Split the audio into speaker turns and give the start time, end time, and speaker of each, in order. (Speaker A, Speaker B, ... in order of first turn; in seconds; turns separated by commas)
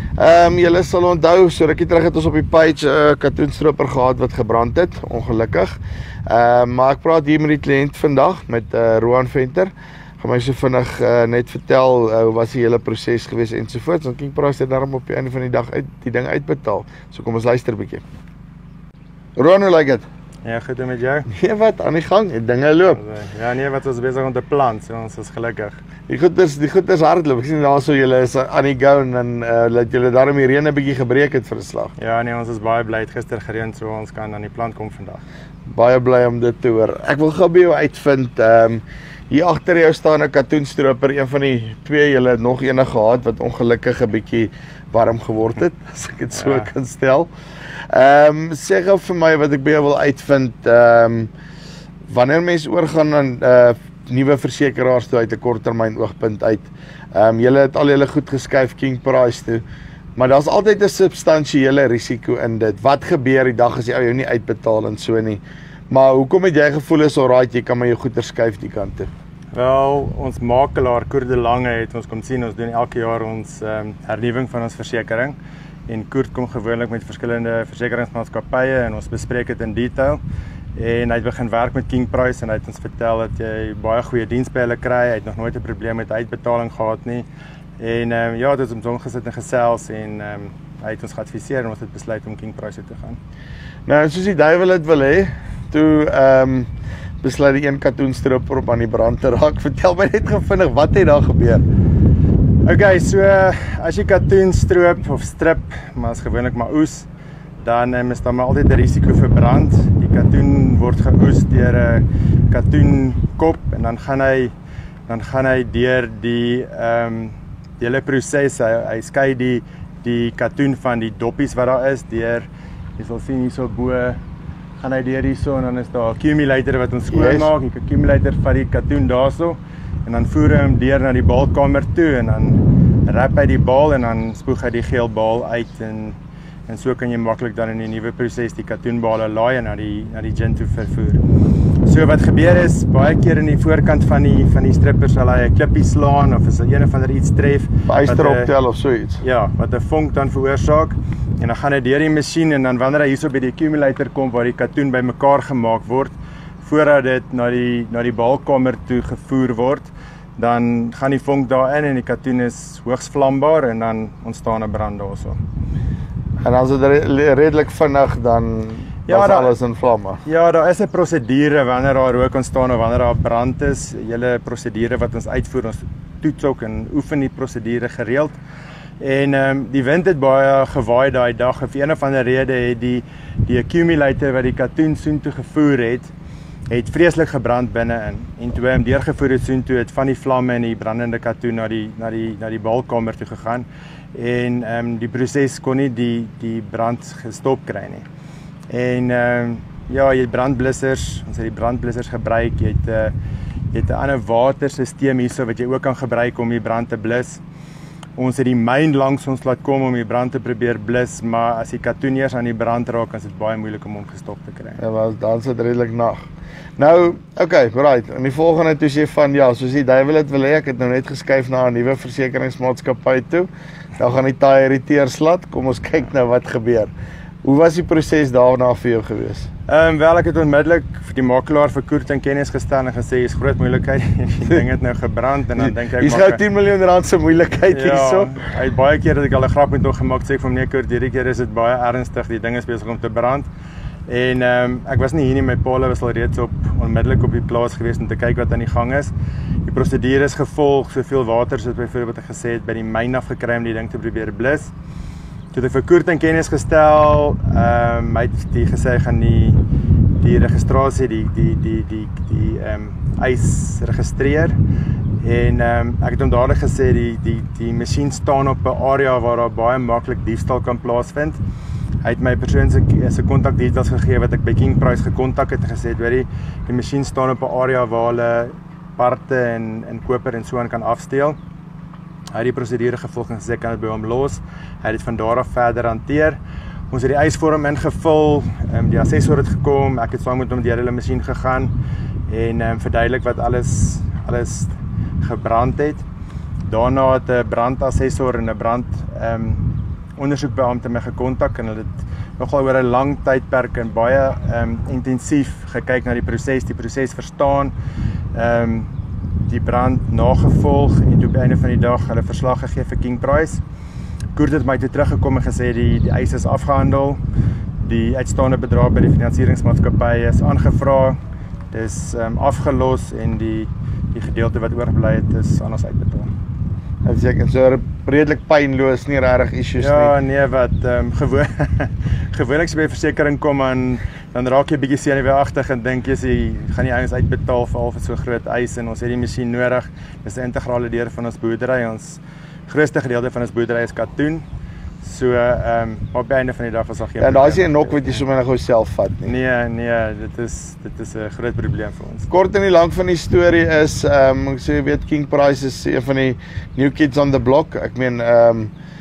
Speaker A: 0.2-18.0, Speaker A: 19.4-20.1, Speaker B: 20.4-21.3, Speaker A: 21.3-23.0, Speaker B: 22.9-25.8, Speaker A: 26.1-31.9, Speaker B: 32.0-35.2, Speaker A: 35.7-47.3, Speaker B: 46.3-46.7, Speaker A: 47.9-51.3, Speaker A: 52.1-59.6, Speaker A: 60.2-69.1, Speaker B: 69.5-75.4, Speaker B: 75.9-80.2, Speaker B: 80.8-87.3, Speaker B: 87.8-93.2, Speaker A: 93.9-96.7, Speaker A: 97.2-101.6, Speaker B: 102.6-107.1, Speaker B: 107.6-114.5, Speaker B: 115.1-124.2, Speaker B: 124.8-136.2, Speaker A: 127.1-127.5, Speaker B: 136.7-141.2, Speaker B: 141.8-148.5, Speaker A: 147.9-149.2, Speaker B: 149.2-165.4, Speaker A: 166.4-170.2, Speaker B: 169.1-169.5, Speaker B: 170.2-178.4, Speaker B: 179.0-186.1, Speaker B: 186.7-198.1, Speaker B: 198.7-203.1, Speaker B: 203.7-207.4, Speaker B: 208.2-214.8, Speaker A: 214.8-216.2, Speaker A: 216.8-226.9, Speaker A: 227.4-229.5, Speaker B: 229.7-236.4, Speaker A: 235.6-238.4, Speaker B: 237.7-243.5, Speaker B: 244.1-249.1, Speaker B: 249.7-254.7, Speaker B: 255.5-259.6, Speaker B: 260.2-264.6, Speaker B: 265.2-271.4, Speaker B: 272.0-281.4, Speaker B: 282.3-286.4, Speaker B: 286.9-291.7, Speaker B: 292.3-296.0, Speaker B: 296.6-299.6, Speaker B: 300.2-307.7, Speaker B: 308.3-313.6, Speaker B: 314.3-317.2, Speaker B: 317.8-321.2, Speaker B: 321.7-326.3, Speaker A: 327.1-330.1, Speaker B: 329.8-344.4, Speaker B: 345.0-348.2, Speaker A: 347.2-349.3, Speaker B: 349.2-352.3, Speaker A: 352.3-358.7